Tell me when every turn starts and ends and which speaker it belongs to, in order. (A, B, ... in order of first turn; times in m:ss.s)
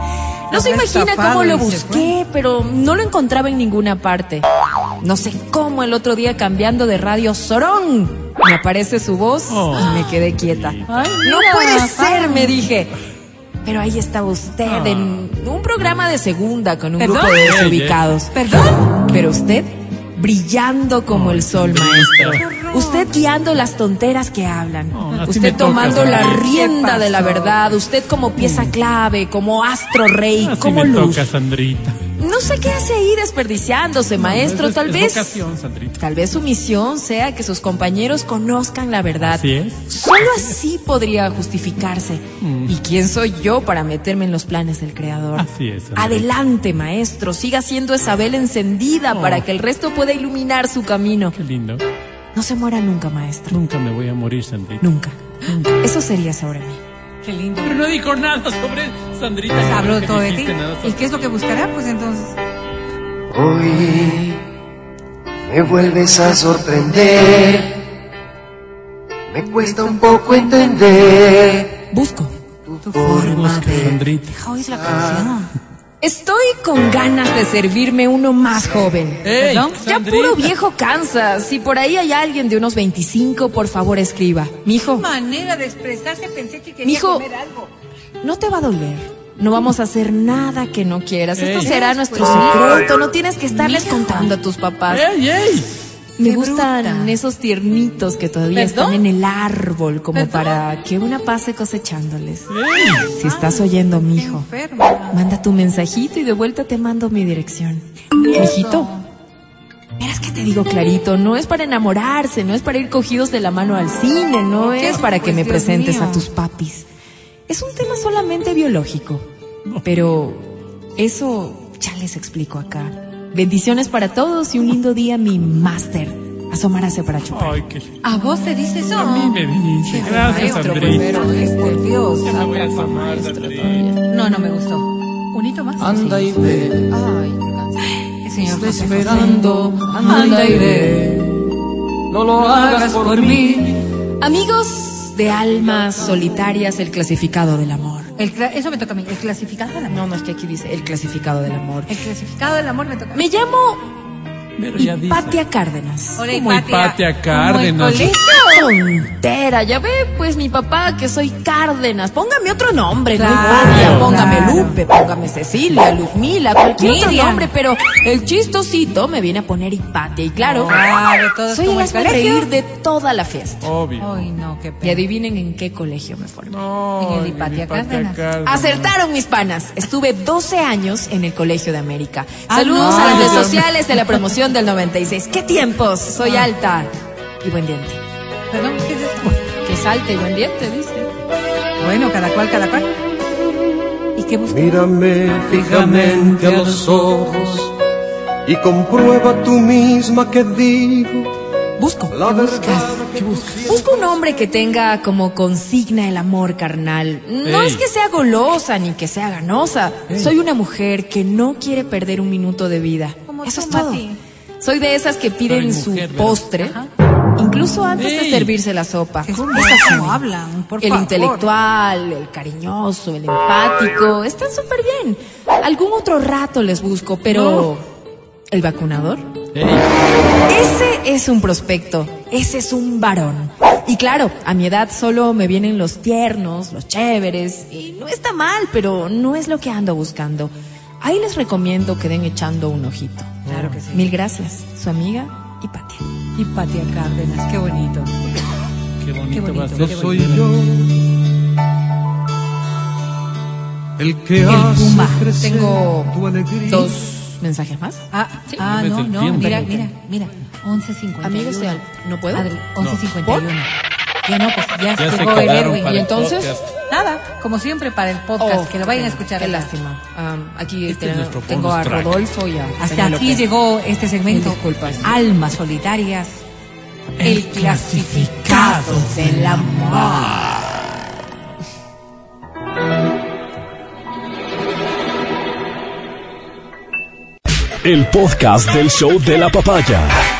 0:00.5-0:04.4 A
0:00.5-0:02.1 B
0:05.0-0:12.9 A
0:09.5-0:11.1 C
0:09.8-0:10.1 B
0:10.9-0:12.5 B
0:13.6-0:18.3 A
0:14.6-0:15.3 C
0:17.0-0:17.5 B
0:17.4-0:18.0 C
0:18.3-0:19.0 B
0:19.0-0:31.3 A
0:21.1-0:22.5 C
0:22.4-0:23.1 B
0:24.9-0:26.6 C
0:26.2-0:27.7 B
0:28.4-0:28.7 C
0:30.4-0:32.0 C
0:32.2-0:35.4 A
0:34.2-0:36.0 C
0:36.0-0:51.4 A
0:39.2-0:40.6 C
0:42.4-0:42.8 C
0:45.4-0:46.3 C
0:49.1-0:49.4 C
0:51.3-0:51.8 C
0:52.3-0:53.6 A
0:53.5-0:54.9 C
0:54.8-0:56.8 A
0:55.4-0:55.7 C
0:57.2-0:57.8 B
0:57.6-1:01.3 C
0:59.6-1:02.4 B
1:03.3-1:04.4 D
1:03.9-1:04.2 B
1:05.5-1:07.7 D
1:05.7-1:07.5 B
1:09.3-1:11.7 D
1:09.5-1:11.6 B
1:11.8-1:12.3 A
1:12.7-1:14.0 D
1:12.8-1:15.5 B
1:13.0-1:14.3 C
1:14.7-1:15.3 D
1:16.0-1:25.1 A
1:19.2-1:20.5 C
1:19.4-1:19.8 B
1:25.0-1:27.7 B
1:26.8-1:27.2 A
1:28.2-1:35.1 A
1:31.4-1:31.8 C
1:31.6-1:32.9 B
1:32.5-1:32.9 C
1:33.5-1:34.3 B
1:34.9-1:35.7 C
1:36.2-1:42.5 A
1:36.2-1:37.2 B
1:38.5-1:39.0 B
1:40.1-1:40.6 B
1:42.5-1:43.1 C
1:42.7-1:45.2 B
1:43.0-1:44.5 A
1:45.1-1:48.9 A
1:48.1-1:49.0 B
1:50.0-1:56.9 A
1:54.6-1:56.3 B
1:57.5-1:59.2 A
1:59.8-2:07.6 A
2:07.3-2:07.9 C
2:08.0-2:12.5 B
2:08.9-2:11.1 C
2:10.0-2:14.0 A
2:12.2-2:13.9 C
2:14.1-2:16.3 B
2:15.8-2:16.9 E
2:16.2-2:16.7 D
2:16.8-2:17.9 A
2:18.2-2:19.4 B
2:18.5-2:21.1 E
2:18.9-2:21.1 A
2:20.0-2:20.8 B
2:22.1-2:23.5 E
2:22.3-2:23.8 B
2:24.2-2:28.1 A
2:28.2-2:30.0 B
2:29.9-2:32.0 A
2:31.9-2:33.2 B
2:33.1-2:33.9 A
2:34.6-2:35.4 C
2:34.8-2:36.7 A
2:36.2-2:38.7 B
2:36.4-2:38.2 C
2:37.9-2:50.9 A
2:43.1-2:44.8 B
2:43.4-2:44.2 C
2:46.8-2:47.5 B
2:50.4-2:52.5 B
2:51.5-2:53.7 A
2:53.6-2:54.2 C
2:54.0-2:55.0 B
2:54.8-2:56.6 A
2:56.5-2:58.9 C
2:57.0-2:58.2 B
2:58.4-3:08.0 A
3:02.5-3:03.6 B
3:02.8-3:03.7 C
3:06.2-3:06.5 B
3:08.5-3:09.4 B
3:09.6-3:11.1 A
3:11.8-3:12.9 B
3:14.2-3:14.9 B
3:14.5-3:17.7 D
3:14.8-3:15.7 E
3:15.4-3:16.9 C
3:16.6-3:17.3 E
3:18.4-3:21.3 E
3:18.5-3:21.3 D
3:21.8-3:34.0 A
3:22.1-3:23.9 D
3:27.4-3:27.8 C
3:30.1-3:30.3 C
3:33.3-3:34.2 B
3:34.6-3:36.8 A
3:35.4-3:36.5 C
3:36.6-3:36.9 B
3:37.4-3:40.2 A
3:38.0-3:38.6 C
3:39.2-3:41.5 B
3:40.8-3:47.9 A
3:47.3-3:47.7 C
3:48.5-3:49.3 A
3:49.5-3:49.8 C
3:50.5-4:03.4 A
4:03.4-4:03.8 C
4:03.4-4:04.1 B
4:03.9-4:06.1 A
4:06.4-4:08.1 B
4:09.0-4:10.6 C
4:09.3-4:10.4 B
4:09.8-4:10.4 E
4:14.0-4:15.4 D
4:14.0-4:16.1 E
4:14.4-4:15.3 B
4:15.4-4:18.6 A
4:16.2-4:16.9 D
4:18.1-4:23.7 B
4:18.6-4:19.7 C
4:19.3-4:19.9 A
4:21.2-4:22.5 A
4:22.8-4:23.0 C
4:23.2-4:23.5 A
4:24.2-4:26.0 B
4:25.0-4:26.7 C
4:25.7-4:26.6 A
4:26.9-4:29.7 B
4:28.4-4:33.5 A
4:30.9-4:32.2 C
4:32.8-4:36.4 B
4:34.3-4:35.2 A
4:34.8-4:35.1 C
4:37.2-4:40.5 C
4:37.2-4:38.7 B
4:37.2-4:37.5 A
4:38.4-4:40.8 A
4:47.8-4:50.1 F